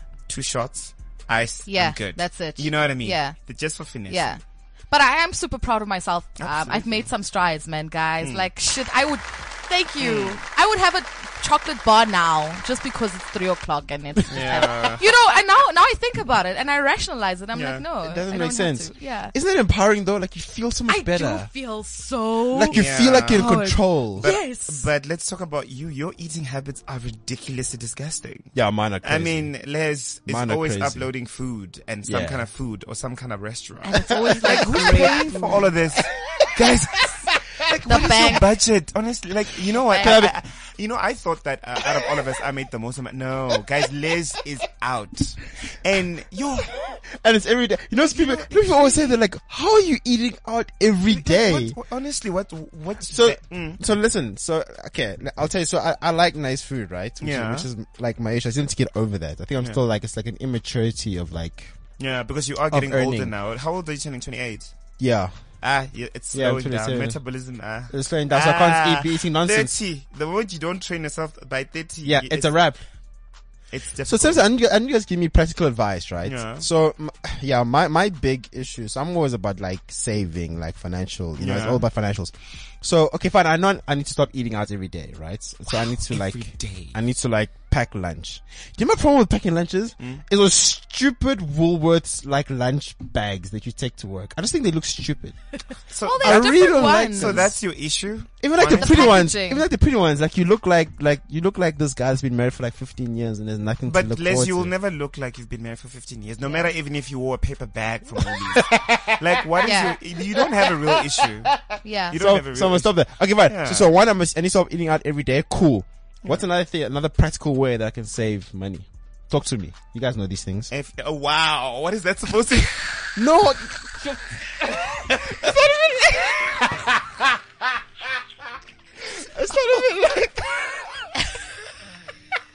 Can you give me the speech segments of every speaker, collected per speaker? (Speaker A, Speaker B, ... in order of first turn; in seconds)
Speaker A: 0.3-4.3, 6.4-7.1, 8.2-8.5, 10.0-10.4, 14.3-15.0, 17.5-17.8, 22.7-23.6, 24.2-47.0, 48.0-49.1, 51.1-53.8, 57.2-57.7, 62.0-64.7, 65.6-72.6, 73.7-74.4, 76.2-76.7, 81.4-81.8, 85.7-87.0, 95.9-99.2, 103.9-111.6, 112.1-113.9, 120.7-123.2, 125.1-125.5
Speaker B: 1.6-3.4, 4.1-19.3, 20.9-24.9, 33.8-35.7, 37.8-38.4, 39.9-40.2, 96.0-97.5, 98.6-99.6, 109.6-110.0, 111.8-112.2
Speaker C: 18.0-21.5, 22.5-24.3, 28.5-29.5, 30.3-31.1, 32.0-32.5, 34.1-35.6, 36.3-36.6, 40.0-40.3, 47.1-51.8, 53.1-61.7, 62.7-63.3, 65.0-65.3, 66.3-67.2, 67.9-69.7, 72.0-72.8, 74.0-95.4, 96.2-97.6, 98.4-104.7, 108.4-109.4, 110.3-120.7, 123.2-126.8, 129.2-130.7